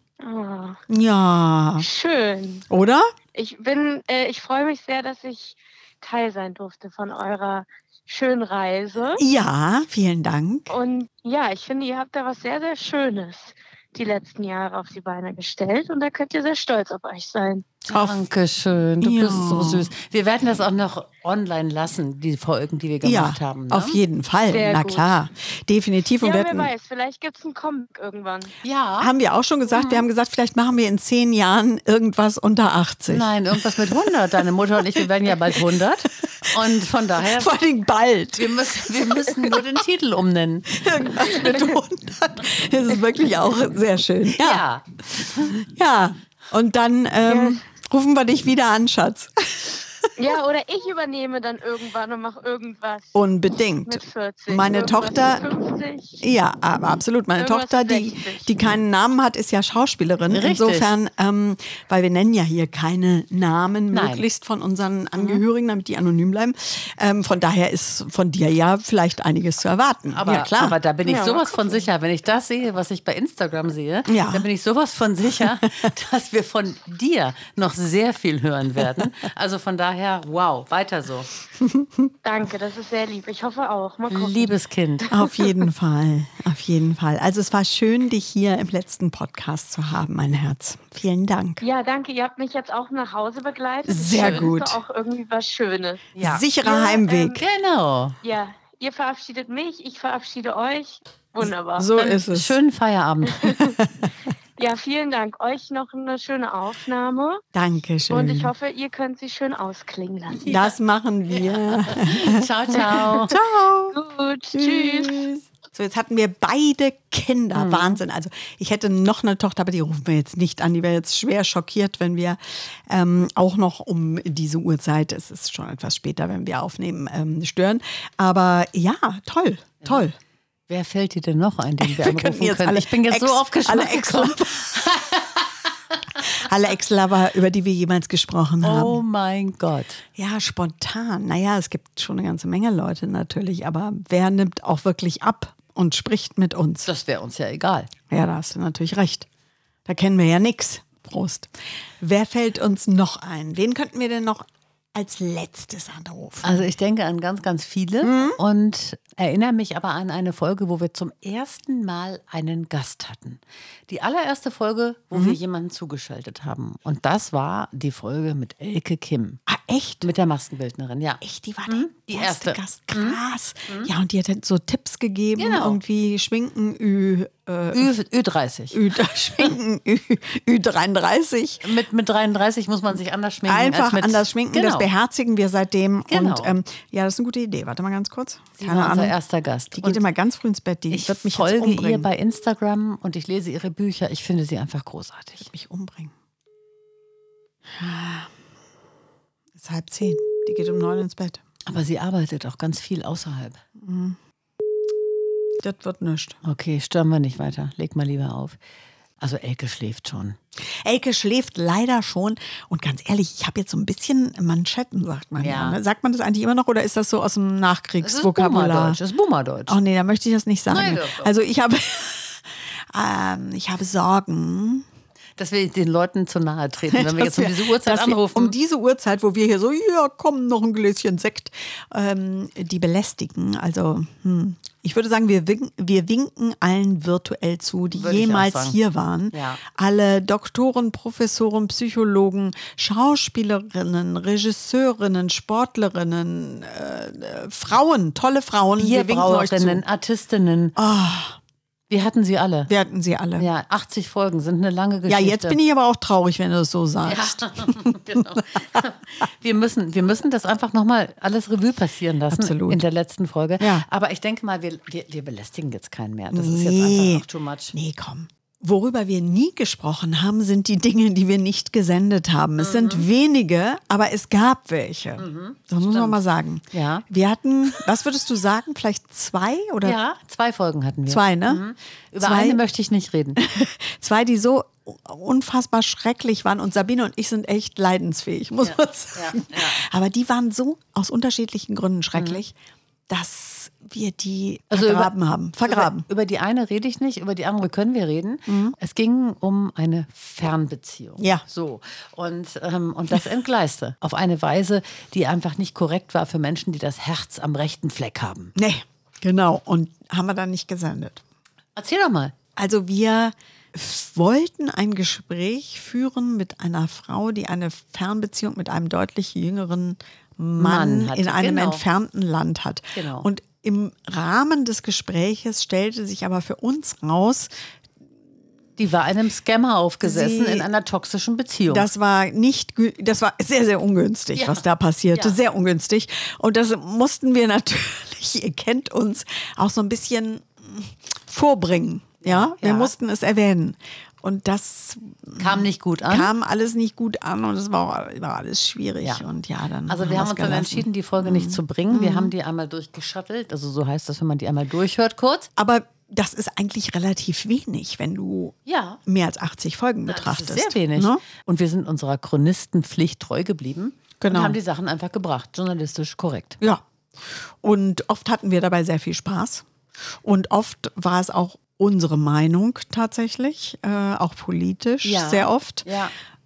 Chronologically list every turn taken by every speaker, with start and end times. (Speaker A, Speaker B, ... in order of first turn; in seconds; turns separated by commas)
Speaker A: 0.2-0.8, Speaker B: 0.9-1.9, Speaker A: 1.8-2.6, Speaker B: 2.7-3.1, Speaker A: 3.3-9.2, Speaker B: 9.2-10.7, Speaker A: 10.7-17.7, Speaker C: 17.9-24.0, Speaker B: 17.9-18.2, Speaker B: 19.0-19.9, Speaker B: 23.0-26.7, Speaker A: 24.5-25.2, Speaker A: 26.2-28.5, Speaker C: 28.6-29.1, Speaker B: 29.0-33.9, Speaker C: 29.7-30.0, Speaker C: 33.1-37.5, Speaker B: 35.0-35.6, Speaker B: 37.2-39.6, Speaker C: 38.4-41.8, Speaker B: 40.7-44.6, Speaker C: 44.4-45.5, Speaker B: 45.4-50.3, Speaker A: 47.2-47.6, Speaker A: 50.2-53.2, Speaker B: 53.1-55.4, Speaker A: 53.8-56.2, Speaker B: 56.2-70.8, Speaker A: 57.4-58.5, Speaker C: 60.3-60.9, Speaker C: 63.9-64.2, Speaker C: 70.1-81.3, Speaker A: 71.0-71.8, Speaker B: 74.1-74.5, Speaker B: 81.6-82.1, Speaker A: 82.2-85.5, Speaker C: 84.1-85.1, Speaker B: 85.1-91.6, Speaker A: 91.6-96.1, Speaker B: 93.9-94.8, Speaker C: 96.1-96.5, Speaker B: 96.2-97.4, Speaker A: 96.6-97.4, Speaker C: 97.3-98.2, Speaker A: 98.2-102.0, Speaker B: 101.8-102.5, Speaker C: 102.0-103.4, Speaker A: 103.4-103.8, Speaker B: 103.6-104.0, Speaker A: 104.6-107.4, Speaker B: 107.5-108.5, Speaker A: 108.1-110.5, Speaker B: 110.5-114.0, Speaker C: 111.3-113.3, Speaker A: 113.9-115.2, Speaker B: 114.5-130.2, Speaker C: 117.5-118.0, Speaker C: 130.7-135.5, Speaker B: 131.8-134.8, Speaker B: 136.2-139.0, Speaker C: 138.6-140.0, Speaker B: 140.2-146.9, Speaker C: 146.8-147.9, Speaker B: 148.1-149.3, Speaker B: 149.9-156.6, Speaker C: 156.4-169.4, Speaker B: 158.0-158.4, Speaker B: 165.1-165.4, Speaker B: 169.5-170.1, Speaker C: 170.0-173.9, Speaker B: 171.2-177.9, Speaker C: 175.3-175.8, Speaker C: 177.7-178.8, Speaker B: 178.7-181.6, Speaker C: 181.6-184.9, Speaker B: 183.4-189.2, Speaker C: 186.1-186.6, Speaker C: 188.6-190.0, Speaker B: 189.7-192.1, Speaker C: 190.9-195.5, Speaker B: 195.4-196.1, Speaker B: 197.7-198.3, Speaker B: 199.6-201.4, Speaker C: 201.7-203.6, Speaker B: 203.8-204.2, Speaker B: 205.6-206.4, Speaker C: 206.4-208.6, Speaker C: 209.2-210.4, Speaker B: 210.8-219.0, Speaker C: 215.4-215.8, Speaker C: 218.0-219.8, Speaker B: 219.7-224.8, Speaker C: 220.7-221.3, Speaker C: 225.4-228.5, Speaker B: 226.9-249.8, Speaker C: 237.9-238.8, Speaker C: 239.3-239.6, Speaker C: 248.8-250.8, Speaker B: 250.8-251.4, Speaker C: 251.9-252.7, Speaker B: 252.7-253.5, Speaker C: 253.4-255.6, Speaker B: 255.1-258.8, Speaker C: 257.1-267.7, Speaker B: 262.3-262.8, Speaker B: 263.6-263.9, Speaker B: 266.3-280.0, Speaker C: 272.6-273.1, Speaker C: 275.2-277.0, Speaker C: 279.8-283.4, Speaker B: 281.1-281.6, Speaker B: 282.2-282.6, Speaker B: 283.4-292.5, Speaker C: 288.6-289.8, Speaker C: 292.1-292.4, Speaker B: 293.1-296.1, Speaker C: 294.7-308.5, Speaker B: 298.5-298.8, Speaker B: 308.6-311.2, Speaker C: 311.8-312.3, Speaker B: 312.6-327.5, Speaker C: 320.6-321.8, Speaker C: 322.9-323.3, Speaker C: 328.8-331.9, Speaker B: 330.0-330.7, Speaker B: 331.7-352.3, Speaker C: 334.4-335.4, Speaker C: 342.2-342.9, Speaker C: 345.4-346.3, Speaker C: 349.9-355.5, Speaker B: 355.6-361.2, Speaker C: 358.6-359.0, Speaker C: 360.1-366.6, Speaker B: 364.2-364.6, Speaker B: 366.6-375.9, Speaker C: 375.0-376.1